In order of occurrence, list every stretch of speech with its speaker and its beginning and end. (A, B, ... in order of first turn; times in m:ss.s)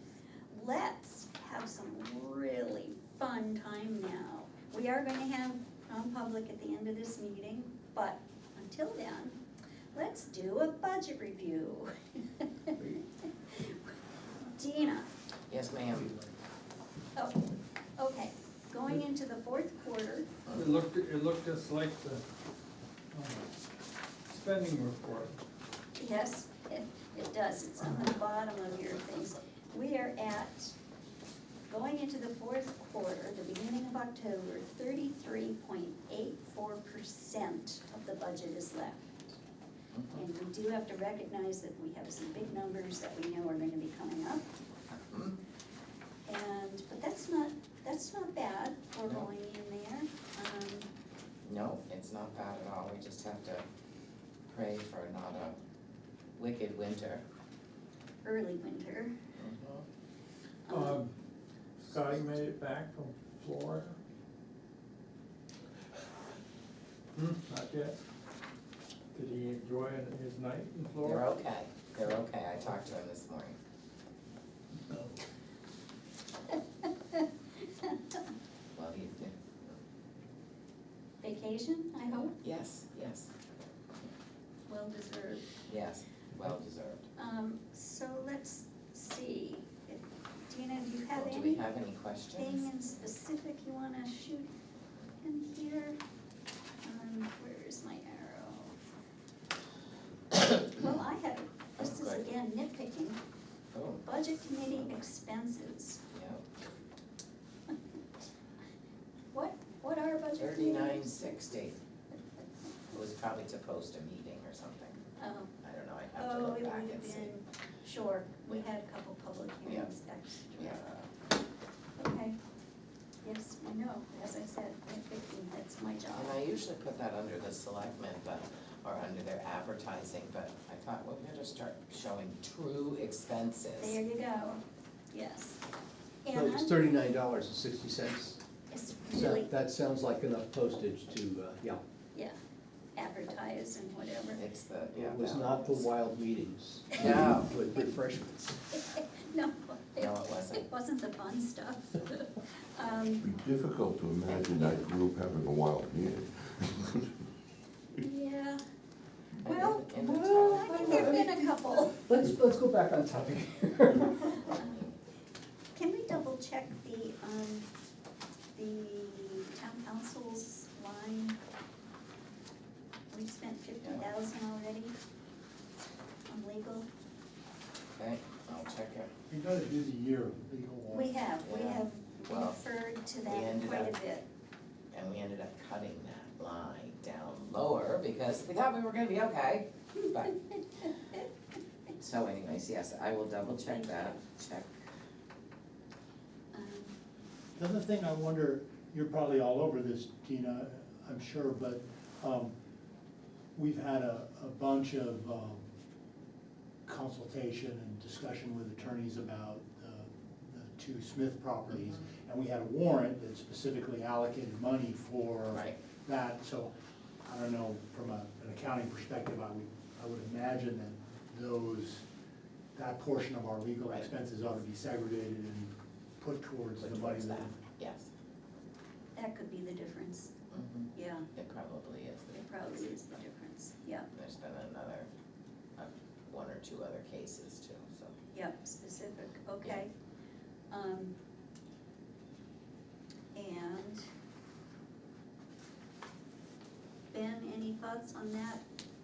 0:00.5-0:09.4 A
0:09.9-0:12.8 A
0:13.5-0:13.8 A
0:14.4-0:15.1 A
0:15.5-0:16.1 B
0:18.0-0:20.3 A
0:20.4-0:20.8 B
0:20.5-0:22.2 C
0:23.1-0:23.5 C
0:24.3-0:25.4 C
0:26.0-0:30.7 A
0:31.7-0:39.3 A
0:39.9-0:40.2 B
0:40.1-0:44.5 A
0:45.1-0:45.4 B
0:46.2-0:50.9 A
0:51.4-0:53.6 B
0:54.5-0:55.6 B
0:56.4-0:57.2 B
0:58.2-0:59.1 A
0:59.4-0:59.8 B
1:00.7-1:01.1 C
1:00.7-1:01.0 A
1:01.8-1:04.0 C
1:07.2-1:08.0 C
1:09.1-1:11.3 C
1:11.0-1:13.6 B
1:18.7-1:19.8 B
1:21.2-1:22.3 A
1:22.4-1:23.3 B
1:24.7-1:25.4 A
1:25.6-1:27.0 B
1:27.2-1:31.6 A
1:31.1-1:32.7 B
1:32.3-1:34.5 A
1:35.2-1:36.0 A
1:36.8-1:38.7 A
1:40.5-1:43.2 A
1:41.8-1:42.2 B
1:43.7-1:44.0 B
1:44.0-1:46.0 A
1:46.1-1:46.4 B
1:49.3-1:51.3 A
1:50.4-1:51.8 B
1:52.9-1:55.0 B
1:55.2-1:55.5 A
1:55.6-1:57.3 B
1:56.2-2:00.8 A
2:00.6-2:01.1 B
2:02.0-2:02.4 A
2:03.2-2:06.3 A
2:06.1-2:14.0 B
2:13.8-2:15.6 A
2:16.2-2:16.8 A
2:16.3-2:18.4 D
2:18.7-2:19.5 A
2:19.1-2:21.8 D
2:23.0-2:24.4 A
2:24.3-2:25.9 B
2:24.9-2:28.6 D
2:26.9-2:27.5 B
2:27.0-2:27.9 A
2:28.7-2:33.2 A
2:30.0-2:30.7 B
2:33.2-2:37.1 E
2:34.3-2:34.9 B
2:38.0-2:38.6 A
2:39.4-2:41.1 B
2:39.4-2:42.0 A
2:40.1-2:44.5 D
2:44.4-2:44.7 A
2:44.6-2:44.9 B
2:45.7-2:47.6 A
2:48.5-2:51.4 A
2:53.1-2:54.9 A
2:56.3-2:56.9 A
2:58.0-2:59.1 B
2:59.3-3:01.1 F
3:00.9-3:04.2 A
3:01.4-3:02.6 B
3:03.3-3:03.9 B
3:04.9-3:10.3 B
3:12.0-3:14.7 B
3:13.6-3:14.2 A
3:16.5-3:17.0 A
3:17.6-3:22.5 F
3:23.5-3:25.6 F
3:26.8-3:36.7 F
3:37.2-3:42.0 F
3:42.7-3:47.6 F
3:46.8-3:48.1 B
3:49.1-3:50.3 A
3:50.5-3:52.4 B
3:50.9-3:51.3 A
3:52.3-3:54.1 A
3:54.1-3:55.1 B
3:55.8-3:58.1 B
3:58.3-3:59.9 A
4:00.7-4:01.1 A
4:03.3-4:04.0 A
4:07.1-4:08.6 A